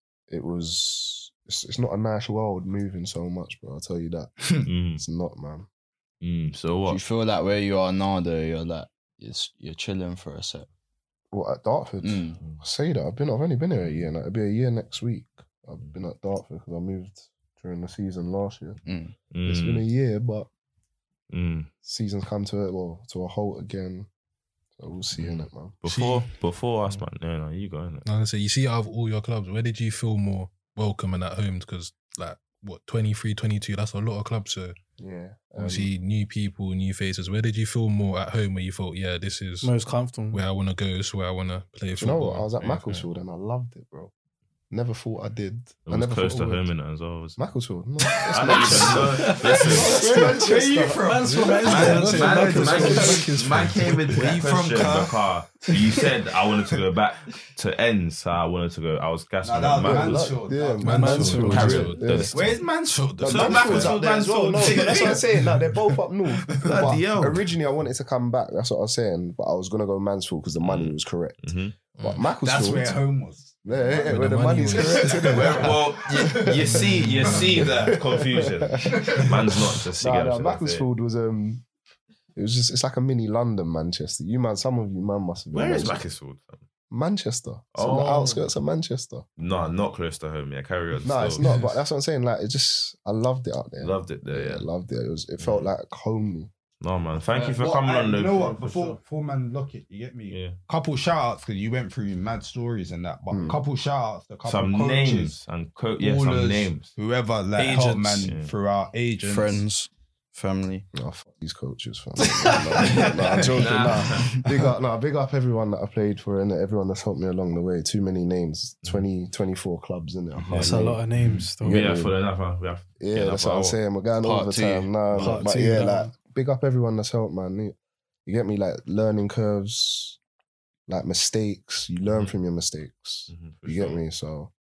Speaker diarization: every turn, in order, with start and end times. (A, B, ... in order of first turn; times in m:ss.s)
0:00.3-0:04.3 A
0:04.4-0:04.7 B
0:04.6-0:05.0 C
0:05.0-0:05.7 A
0:06.2-0:07.0 C
0:06.9-0:10.7 D
0:11.3-0:18.8 A
0:12.0-0:12.4 D
0:13.8-0:14.1 C
0:18.8-0:19.2 D
0:19.3-0:19.9 C
0:19.4-0:20.5 A
0:21.3-0:21.7 C
0:21.8-0:24.1 A
0:24.8-0:25.8 A
0:25.2-0:28.1 C
0:25.8-0:26.3 B
0:28.1-0:34.8 E
0:35.0-0:35.9 A
0:35.6-0:39.7 E
0:39.6-0:40.4 F
0:40.3-0:42.4 E
0:42.0-0:44.1 A
0:42.2-0:43.1 C
0:44.7-0:46.7 A
0:45.9-0:47.4 C
0:47.4-0:52.0 A
0:48.3-0:50.0 C
0:48.5-0:53.4 B
0:49.0-0:53.2 F
0:51.7-1:00.4 C
0:51.7-0:54.2 E
0:54.0-0:56.1 B
0:59.4-1:06.0 B
0:59.8-1:02.5 A
1:00.8-1:02.3 E
1:01.0-1:01.7 F
1:01.4-1:02.6 C
1:03.2-1:11.4 A
1:03.2-1:05.2 C
1:06.6-1:07.5 C
1:10.6-1:11.8 C
1:12.0-1:12.3 E
1:12.0-1:13.0 A
1:12.4-1:17.7 B
1:13.6-1:21.6 A
1:14.1-1:15.3 E
1:15.2-1:20.9 C
1:16.6-1:17.7 E
1:18.8-1:19.3 B
1:22.4-1:26.0 A
1:25.5-1:26.6 C
1:26.9-1:29.3 A
1:27.7-1:28.5 C
1:29.4-1:31.5 C
1:31.0-1:36.5 A
1:31.4-1:31.7 E
1:33.8-1:34.7 C
1:35.4-1:35.7 C
1:36.8-1:39.0 C
1:37.3-1:45.4 B
1:40.3-1:40.6 C
1:43.3-1:43.6 A
1:44.4-1:46.9 C
1:46.0-1:49.6 B
1:47.6-1:48.3 F
1:48.2-1:48.5 C
1:49.2-1:50.9 D
1:50.9-2:01.0 A
1:53.0-1:54.4 C
1:53.1-1:53.6 B
2:00.4-2:03.8 C
2:00.5-2:01.9 F
2:01.6-2:02.2 A
2:03.0-2:10.2 A
2:04.2-2:05.0 D
2:05.1-2:05.7 C
2:05.2-2:06.1 F
2:10.9-2:14.5 A
2:12.0-2:12.4 C
2:13.3-2:14.0 C